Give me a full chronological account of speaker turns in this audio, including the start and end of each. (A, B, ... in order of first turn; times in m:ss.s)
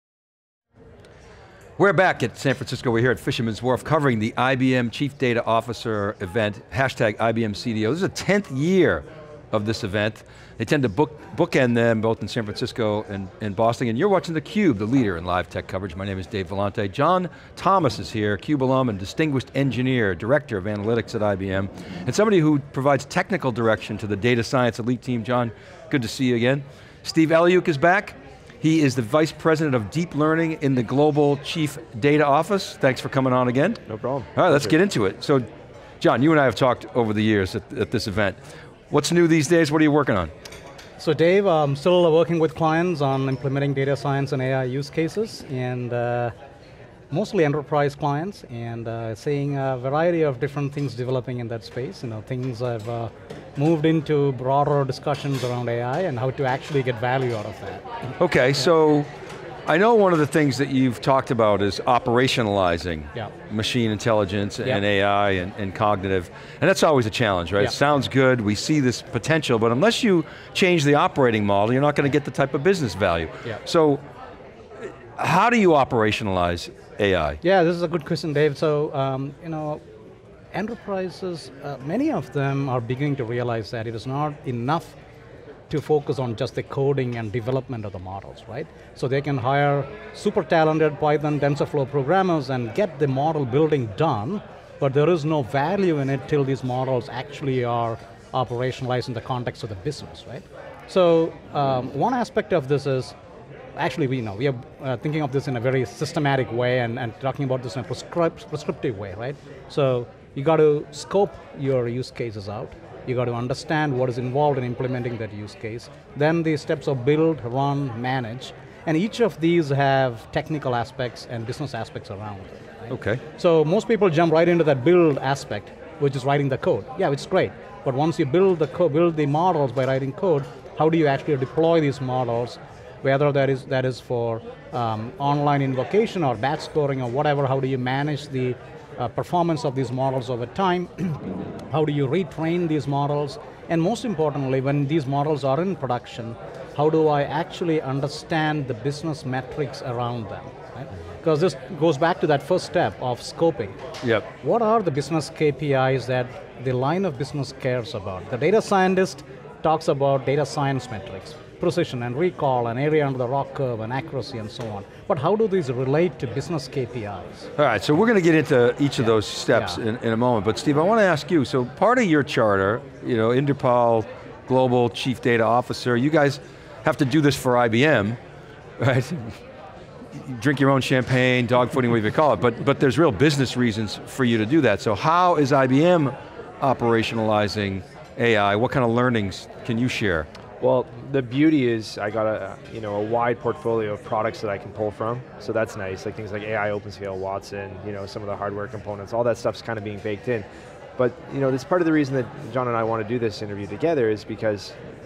0:01.8-0:35.4 A
0:33.9-0:34.8 B
0:36.0-0:38.4 A
0:38.9-0:40.3 A
0:41.0-0:46.3 C
0:47.1-0:57.9 C
0:58.2-0:59.1 A
0:59.6-1:14.0 A
1:15.2-1:17.4 A
1:17.4-1:19.8 C
1:20.5-1:25.0 C
1:25.7-1:43.2 C
1:43.7-2:33.8 C
2:02.9-2:03.2 A
2:34.0-2:34.3 A
2:34.4-2:47.5 C
2:47.6-2:58.2 A
2:49.5-2:49.8 C
2:58.8-2:59.4 A
3:00.1-3:10.3 A
3:10.6-3:20.4 B
3:21.0-3:24.8 B